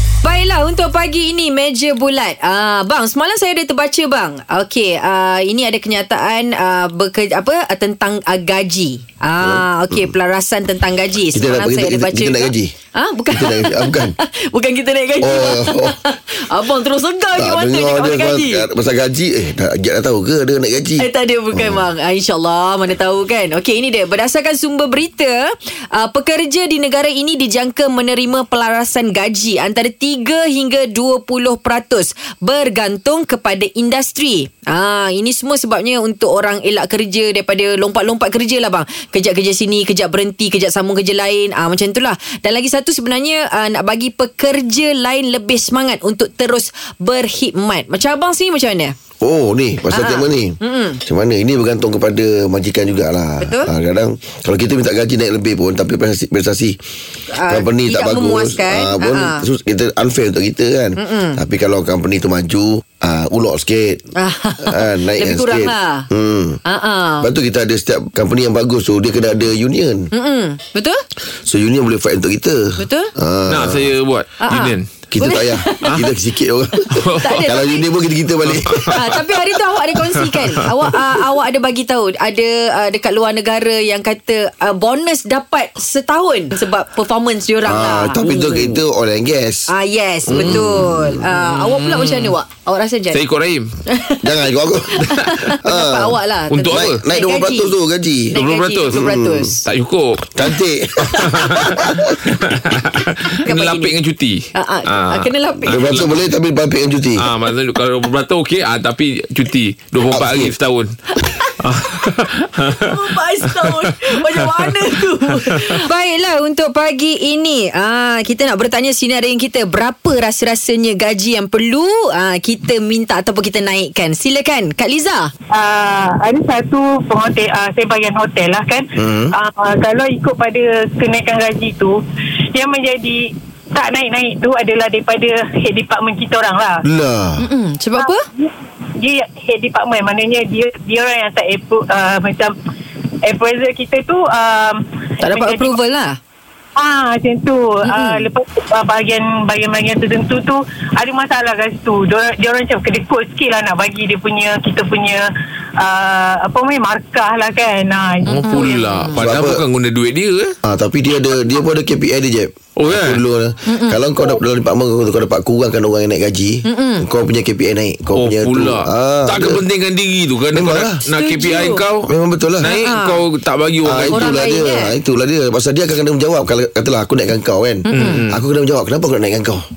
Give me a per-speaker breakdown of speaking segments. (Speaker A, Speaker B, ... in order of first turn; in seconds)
Speaker A: 0.2-18.7, 21.0-49.0, 49.9-51.0, 53.4-53.7, 57.3-59.4, 61.0-61.4, 64.2-66.1, 66.7-67.3, 70.1-71.0, 72.8-73.1, 74.4-75.9, 77.2-77.8, 78.9-88.8, 89.7-93.2, 93.9-94.3, 95.0-97.7, 98.3-99.6, 103.4-103.9, 104.5-105.8, 111.2-111.5, 112.7-125.3, 137.4-138.3, 145.2-146.2, 147.8-148.3, 158.4-159.1, 163.7-164.0, 166.7-167.1, 171.1-171.8, 172.6-173.2, 174.1-174.9, 177.8-178.2
Speaker B: 9.4-10.1, 11.3-12.7, 13.3-14.2, 15.2-16.0, 17.4-21.8, 49.2-56.8, 57.5-64.0, 64.6-66.6, 67.2-70.1, 71.5-73.9, 75.1-79.2, 87.7-89.7, 90.3-91.2, 94.2-96.2, 96.7-98.3, 98.9-99.5, 100.3-102.2, 105.7-107.3, 110.1-110.5, 129.0-129.3, 136.8-137.4, 159.2-159.6, 160.6-169.6, 170.5-171.0, 172.1-172.7, 173.8-179.7
Speaker C: 73.5-75.0, 76.9-77.5, 78.5-78.9, 90.3-90.6, 91.6-92.3, 93.1-93.7, 96.5-97.0, 98.3-99.0, 99.7-100.3, 101.2-106.2, 107.2-111.0, 111.6-115.8, 158.2-160.6, 162.8-163.2, 168.1-174.2, 177.9-178.4
Speaker D: 125.5-132.0, 132.5-136.8, 138.0-142.6, 143.2-145.8, 146.8-155.3, 155.8-158.7